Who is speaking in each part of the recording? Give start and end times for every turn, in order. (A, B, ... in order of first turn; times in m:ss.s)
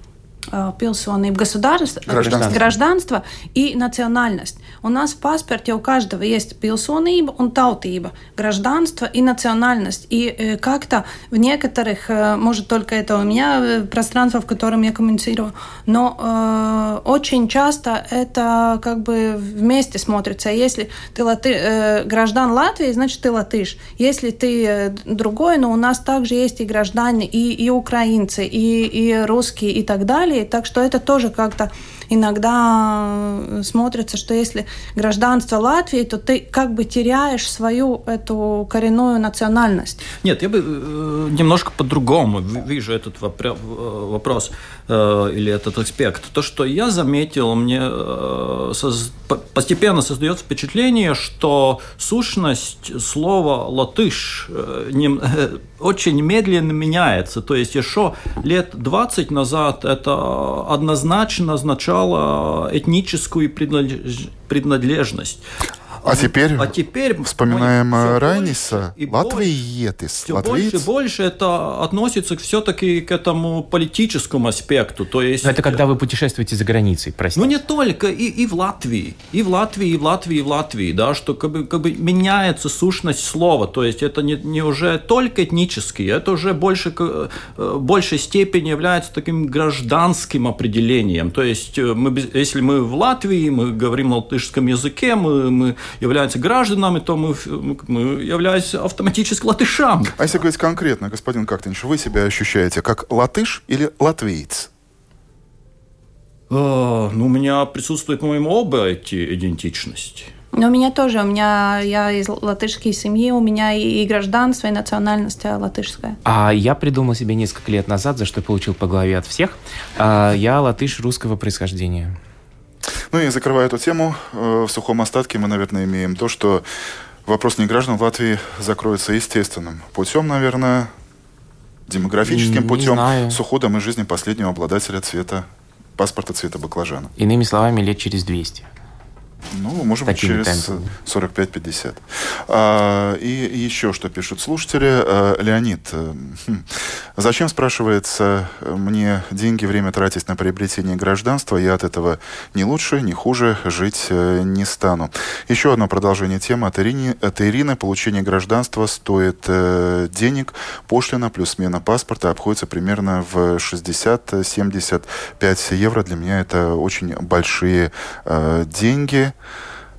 0:00.5-0:40.0 A
0:02.1-0:02.6 B
0:02.1-0:02.7 C
0:40.2-1:05.4 D
1:06.0-1:09.5 D
1:06.0-1:10.9 B
1:10.2-1:15.8 D
1:15.4-1:17.6 C
1:17.4-1:40.3 D
1:40.2-1:44.7 B
1:46.5-1:50.3 D
1:50.5-1:56.2 A
1:56.2-2:02.2 C
2:03.1-2:06.6 B
2:07.2-2:10.9 B
2:11.9-2:17.1 B
2:12.2-2:13.4 C
2:17.2-2:18.7 C
2:19.5-2:26.6 B
2:20.0-2:20.9 C
2:27.2-2:49.3 B